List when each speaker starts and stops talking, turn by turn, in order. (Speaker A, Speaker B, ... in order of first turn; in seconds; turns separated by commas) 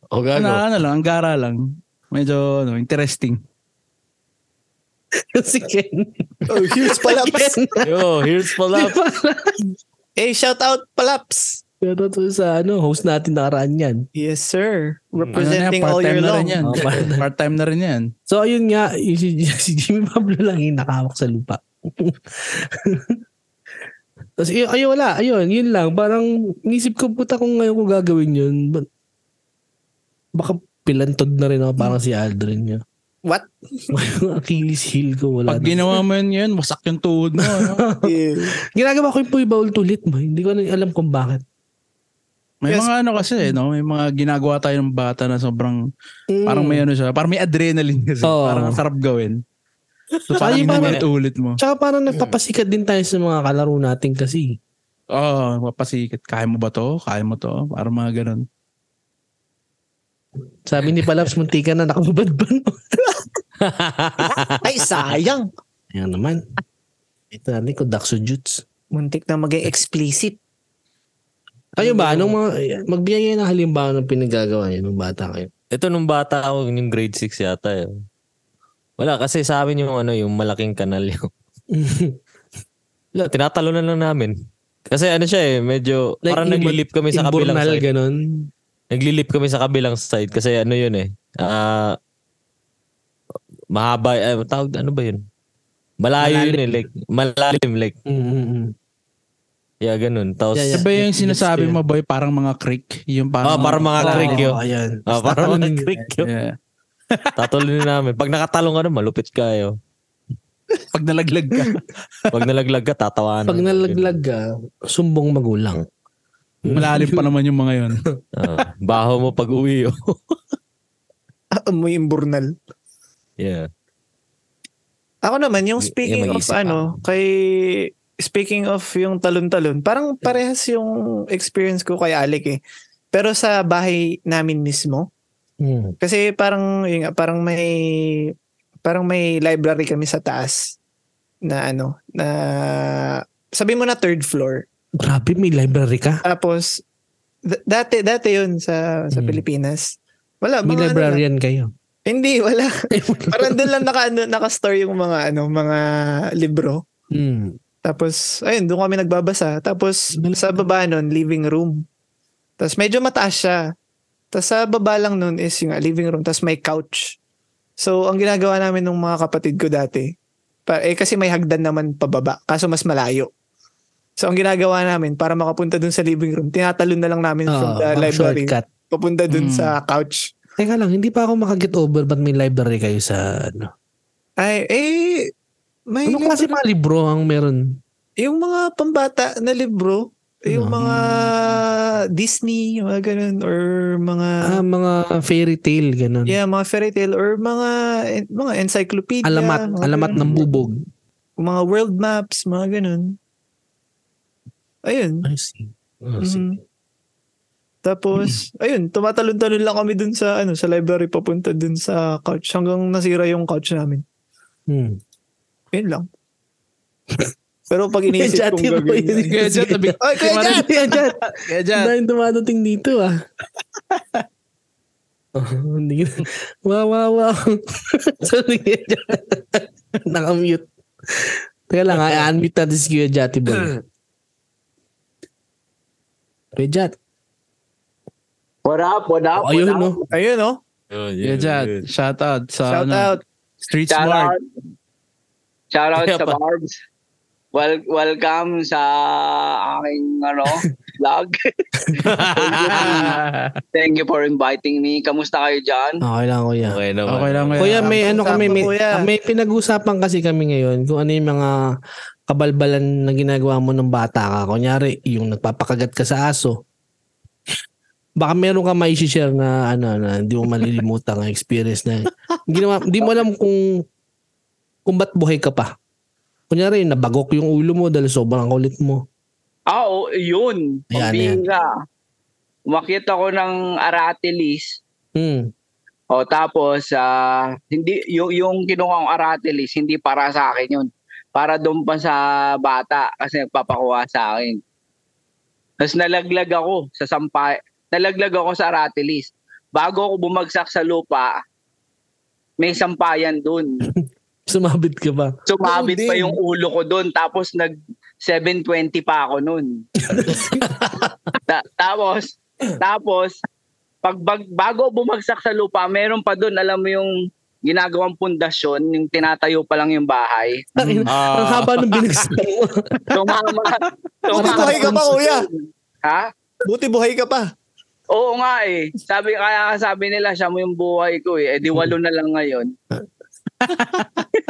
Speaker A: 0.1-0.6, Speaker B: 0.3-3.4, Speaker C: 5.2-9.6, Speaker D: 6.5-7.6, Speaker A: 7.8-9.0, Speaker D: 10.2-11.6, Speaker C: 11.8-14.1, Speaker D: 14.2-16.6, Speaker B: 15.4-18.1, Speaker C: 16.6-17.2, Speaker C: 18.3-23.2, Speaker C: 24.4-28.9, Speaker C: 30.4-32.8, Speaker C: 33.9-36.0, Speaker B: 35.5-37.8, Speaker C: 37.4-38.1, Speaker D: 38.0-38.5, Speaker C: 38.7-41.4, Speaker B: 42.6-45.8, Speaker C: 46.3-46.8, Speaker B: 46.5-49.4, Speaker C: 48.2-48.8, Speaker B: 50.3-51.6, Speaker C: 50.4-51.0, Speaker C: 51.6-54.6, Speaker B: 55.1-58.5, Speaker C: 60.6-62.8, Speaker A: 63.6-64.6, Speaker D: 64.6-65.5, Speaker C: 65.9-66.4, Speaker C: 67.3-68.6, Speaker D: 68.9-70.4, Speaker C: 71.8-75.5, Speaker A: 75.7-77.9, Speaker A: 79.0-81.3, Speaker C: 81.7-82.2, Speaker A: 83.2-84.3, Speaker A: 84.9-87.8, Speaker C: 86.2-88.5, Speaker A: 88.9-92.0, Speaker A: 93.7-95.2, Speaker A: 96.0-98.0, Speaker C: 96.2-96.6, Speaker C: 98.1-98.7, Speaker A: 99.8-100.8, Speaker C: 100.5-101.8, Speaker B: 100.7-104.5, Speaker A: 103.4-106.3, Speaker C: 103.5-106.0, Speaker B: 106.2-106.5, Speaker A: 107.4-109.8, Speaker B: 110.9-112.3, Speaker A: 112.3-114.2, Speaker C: 113.5-115.8, Speaker C: 116.6-117.3, Speaker B: 116.7-118.0, Speaker A: 118.4-120.2, Speaker D: 121.6-122.5, Speaker A: 123.4-123.7, Speaker D: 125.2-132.6, Speaker A: 125.8-127.0, Speaker D: 133.1-135.1, Speaker C: 135.6-136.0, Speaker D: 136.0-138.3, Speaker D: 138.8-140.8, Speaker D: 141.4-144.7, Speaker C: 145.0-146.2, Speaker D: 146.2-146.8, Speaker D: 147.5-151.2, Speaker C: 149.1-149.4, Speaker C: 150.7-151.7, Speaker D: 152.1-152.7, Speaker C: 152.9-153.8, Speaker D: 153.3-155.8, Speaker D: 156.4-156.8, Speaker C: 157.1-157.6, Speaker D: 157.8-161.8, Speaker C: 160.2-160.6, Speaker D: 162.6-163.6, Speaker D: 164.3-167.2, Speaker D: 167.8-170.1, Speaker D: 170.7-173.3, Speaker D: 174.2-180.3, Speaker C: 177.5-178.6, Speaker B: 179.3-179.7, Speaker C: 180.6-183.7, Speaker D: 184.4-185.3, Speaker D: 185.9-186.5, Speaker C: 186.1-187.7, Speaker D: 188.2-194.4, Speaker C: 190.5-190.8, Speaker B: 190.8-191.6, Speaker C: 194.5-196.3, Speaker D: 196.3-200.4, Speaker C: 199.2-200.8, Speaker D: 201.4-203.2, Speaker D: 204.9-205.3, Speaker C: 205.2-206.5, Speaker D: 206.2-206.6, Speaker D: 207.8-214.0, Speaker C: 214.7-215.0, Speaker D: 215.7-216.1, Speaker D: 217.7-219.3, Speaker C: 218.2-223.2, Speaker B: 219.3-221.9, Speaker D: 220.0-220.7, Speaker B: 223.9-224.2, Speaker C: 225.3-233.8, Speaker C: 236.5-236.9, Speaker E: 238.7-240.1, Speaker C: 239.4-240.0, Speaker D: 240.1-240.6, Speaker A: 240.9-241.8, Speaker B: 241.2-243.1, Speaker D: 242.7-243.2, Speaker B: 243.6-244.3, Speaker E: 243.9-244.4, Speaker E: 245.7-246.8, Speaker A: 246.0-246.4, Speaker E: 247.5-253.1, Speaker A: 251.9-253.2, Speaker B: 252.5-253.4, Speaker E: 253.8-256.0, Speaker C: 256.0-256.8, Speaker A: 256.6-258.0, Speaker B: 257.1-258.4, Speaker C: 257.6-261.6, Speaker D: 257.9-259.0, Speaker C: 262.3-266.6, Speaker C: 268.2-273.8, Speaker C: 274.9-275.7, Speaker C: 276.5-279.0, Speaker E: 279.7-281.7, Speaker C: 280.9-281.4, Speaker E: 282.7-284.8, Speaker C: 285.2-285.5, Speaker E: 286.1-294.6, Speaker E: 295.8-301.4, Speaker E: 302.6-303.7, Speaker C: 304.0-305.4, Speaker E: 305.5-309.8, Speaker D: 305.6-306.4, Speaker C: 310.0-311.4, Speaker E: 311.5-313.4, Speaker E: 314.0-317.1, Speaker E: 317.6-320.6, Speaker C: 320.8-322.9, Speaker B: 320.8-322.2, Speaker E: 323.1-326.3, Speaker C: 324.4-325.1, Speaker D: 324.4-325.4, Speaker D: 326.7-327.5, Speaker E: 328.1-332.7, Speaker B: 333.6-334.3